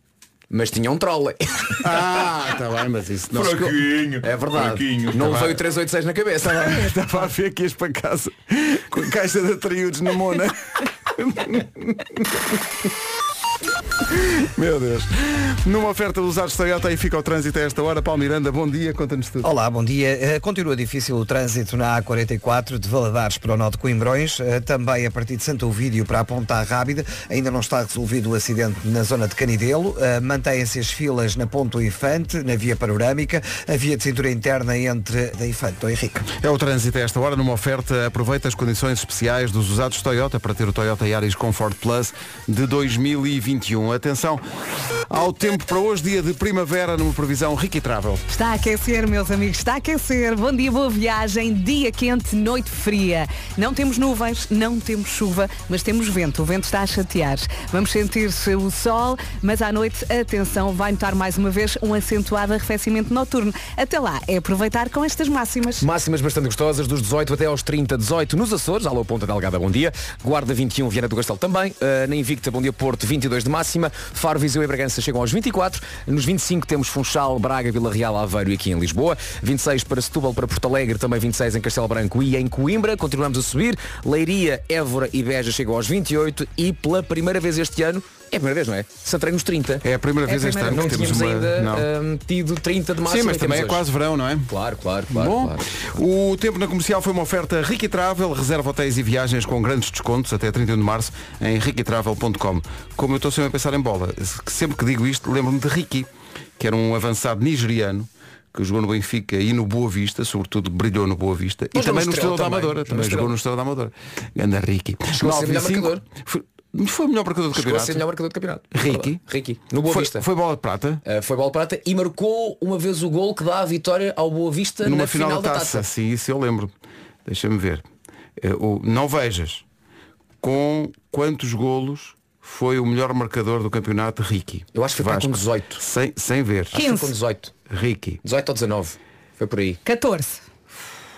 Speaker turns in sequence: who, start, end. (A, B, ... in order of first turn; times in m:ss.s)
0:00.5-0:01.8 A
0:01.8-0:03.8 B
0:03.3-0:05.3 C
0:04.2-0:06.9 A
0:05.2-0:05.6 B
0:06.4-0:12.4 B
0:14.1-0:19.5 B
0:19.4-0:36.2 D
0:36.4-0:44.4 B
0:45.1-0:48.2 B
0:48.3-1:05.8 E
1:05.8-1:29.8 A
1:29.8-1:31.9 B
1:30.2-1:31.2 E
1:30.7-1:33.8 A
1:33.0-1:34.5 B
1:34.5-1:35.9 A
1:35.1-1:58.0 B
1:51.7-1:53.4 A
1:55.1-1:56.0 A
1:57.5-2:00.3 A
1:58.7-1:59.2 B
1:59.8-2:01.0 B
2:01.0-2:05.9 A
2:04.8-2:06.7 B
2:07.2-2:07.8 B
2:08.4-2:09.6 B
2:10.4-2:16.8 B
2:14.7-2:15.8 A
2:16.7-2:17.5 A
2:16.7-2:17.1 E
2:17.7-2:18.2 B
2:18.2-2:19.8 A
2:19.8-2:20.4 E